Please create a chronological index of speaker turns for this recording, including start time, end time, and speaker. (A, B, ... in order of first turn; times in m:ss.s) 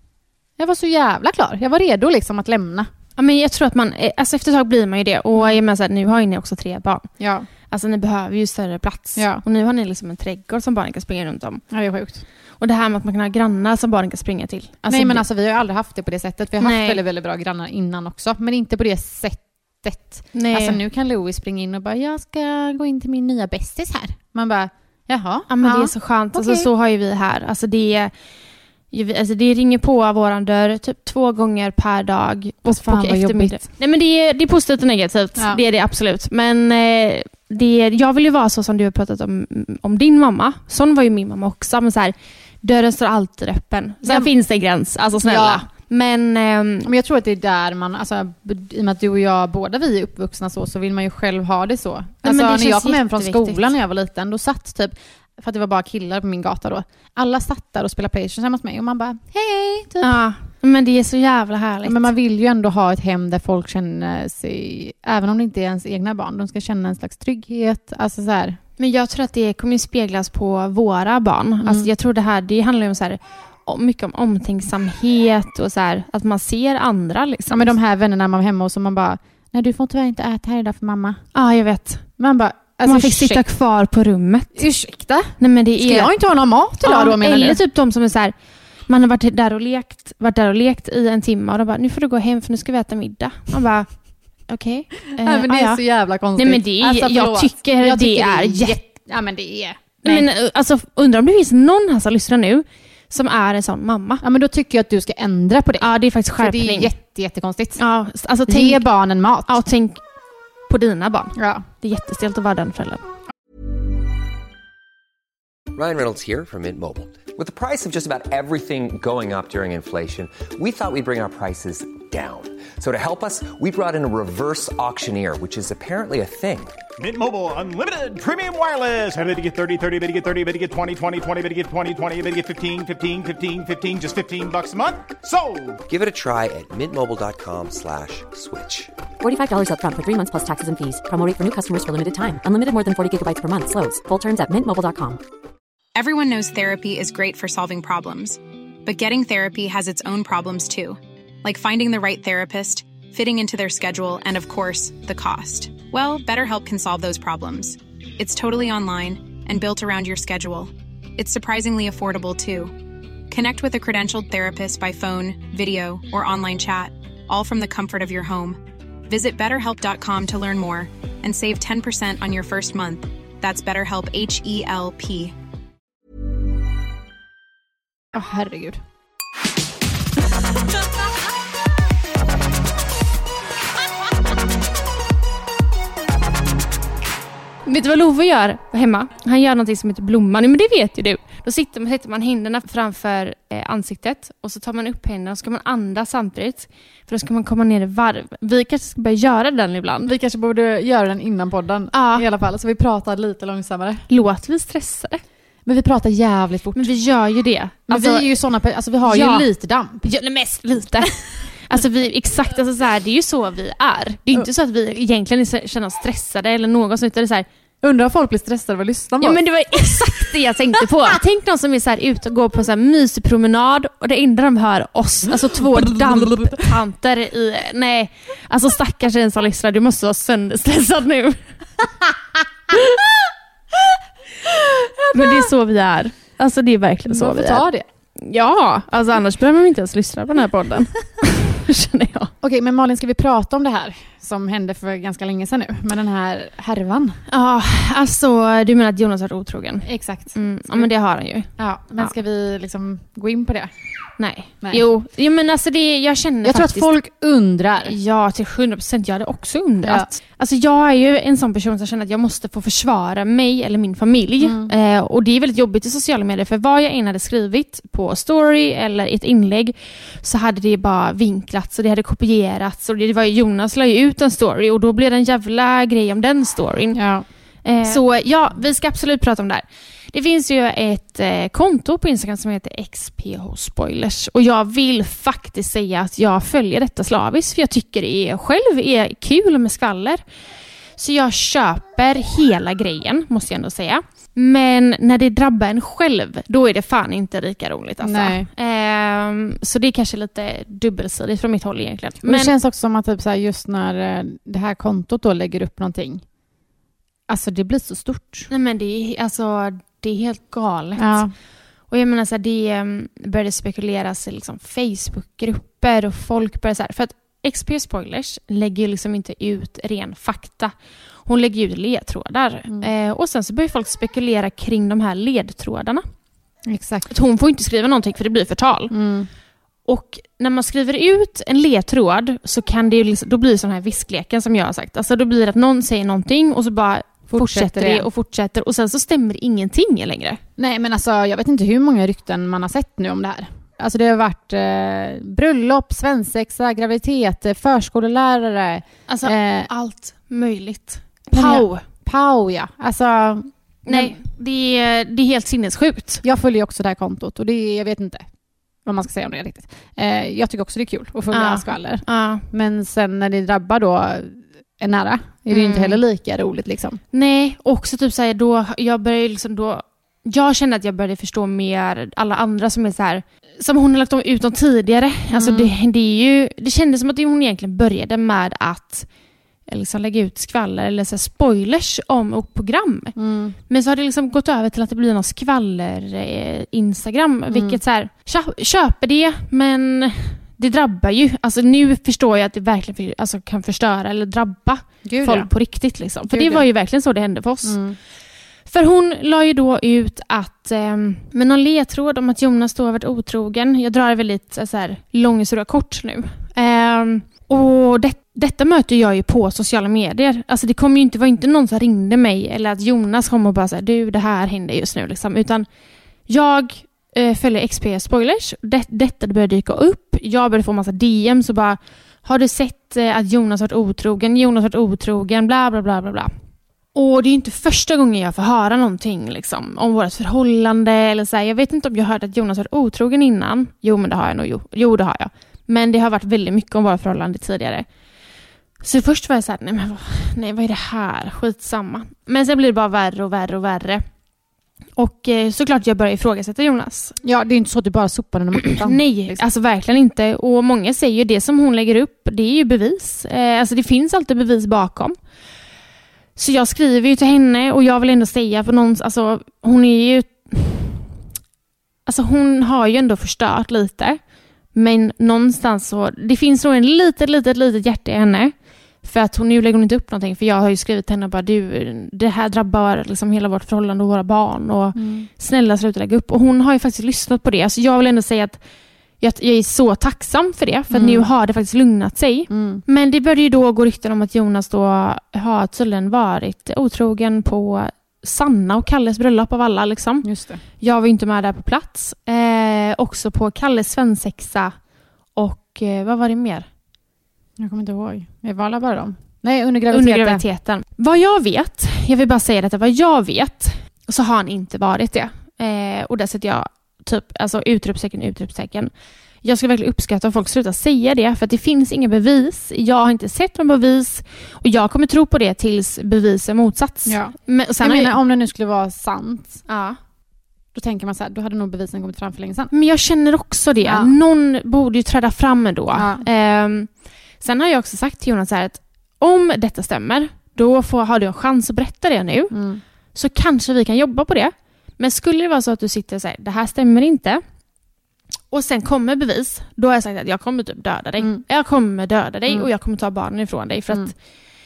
0:00.6-0:02.9 A
0:03.2-0:07.1 B
0:07.2-0:07.5 A
0:07.7-0:11.6 B
0:09.2-0:09.4 A
0:11.7-0:12.3 A
0:12.6-0:15.2 B
0:14.9-0:26.7 A
0:16.6-0:17.0 B
0:20.3-0:20.8 B
0:25.5-0:28.1 B
0:28.9-0:46.9 B
0:32.6-0:33.7 A
0:44.0-0:44.3 A
0:45.2-0:45.7 A
0:46.8-1:00.2 A
0:52.2-0:53.7 B
1:00.0-1:02.1 B
1:01.8-1:08.6 A
1:08.8-1:17.8 B
1:11.6-1:11.9 A
1:17.5-1:21.2 A
1:21.3-1:22.0 B
1:22.2-1:23.4 A
1:22.8-1:24.7 B
1:24.6-1:27.6 A
1:25.4-1:26.1 B
1:26.8-1:28.3 B
1:28.9-1:33.9 B
1:34.4-1:35.8 B
1:35.2-1:40.3 A
1:36.4-1:38.8 B
1:40.0-1:44.2 B
1:44.2-1:47.8 A
1:45.8-1:46.9 B
1:47.8-1:48.9 B
1:48.5-1:49.6 A
1:49.4-1:50.0 B
1:50.7-1:53.0 B
1:51.3-1:51.7 A
1:55.7-2:06.8 C
2:07.0-2:15.8 D
2:15.9-2:18.9 C
2:19.2-2:25.2 E
2:26.0-2:42.8 F
2:43.3-2:55.4 F
2:58.1-2:58.8 A
3:07.6-3:20.1 B
3:20.0-3:24.0 A
3:21.9-3:22.3 B
3:24.1-3:25.2 B
3:25.6-3:26.9 A
3:26.8-3:28.3 B
3:27.9-3:30.0 A
3:29.0-3:29.5 B
3:30.0-3:37.5 B
3:37.8-3:41.2 A
3:39.2-3:51.4 B
3:45.3-3:46.7 A
3:55.1-3:57.7 B
3:55.2-3:55.4 A
3:57.1-3:57.8 A
3:58.2-4:02.3 B
4:02.4-4:07.2 A
4:07.3-4:12.2 B
4:09.8-4:10.9 A
4:11.6-4:13.7 A
4:14.2-4:16.9 B
4:16.4-4:18.0 A
4:17.8-4:37.0 B
4:19.8-4:20.1 A
4:24.4-4:24.7 A
4:37.0-4:37.2 A
4:37.6-4:50.2 B
4:51.0-5:02.5 B
4:58.0-4:58.5 A
5:02.2-5:06.3 A
5:07.3-5:08.5 A
5:08.5-5:11.3 B
5:11.0-5:11.3 A
5:11.9-5:26.0 B
5:26.7-5:27.1 A
5:27.1-5:28.9 B
5:28.9-5:29.3 A
5:29.9-5:40.4 B
5:37.3-5:38.1 A
5:40.6-5:49.7 A
5:49.1-5:51.8 B
5:51.3-5:54.2 A
5:53.9-5:56.2 B
5:56.2-5:58.3 A
5:58.8-6:07.0 A
6:01.3-6:02.4 B
6:05.5-6:06.0 B
6:07.1-6:19.1 B
6:15.3-6:15.7 A
6:19.7-6:23.2 B
6:23.2-6:23.6 A
6:23.7-6:37.8 B
6:27.5-6:27.8 A
6:35.0-6:35.5 A
6:36.3-6:36.7 A
6:37.6-6:38.0 A
6:38.7-6:55.7 B
6:56.3-7:06.3 B
7:06.9-7:17.9 B
7:18.8-7:24.0 B
7:25.0-7:27.2 B
7:27.2-7:29.4 A
7:28.6-7:35.2 B
7:36.4-7:41.0 B
7:42.1-7:58.6 B
7:55.0-7:55.3 A
7:59.2-8:16.7 B
8:00.9-8:01.3 A
8:02.5-8:02.8 A
8:10.2-8:10.6 A
8:17.6-8:20.4 A
8:19.9-8:38.2 B
8:37.1-8:39.6 A
8:39.7-8:40.0 B
8:40.7-8:42.7 A
8:42.7-8:52.6 B
8:43.8-8:44.1 A
8:45.9-8:46.2 A
8:52.5-8:52.8 A
8:53.1-8:57.4 B
8:58.5-9:04.2 B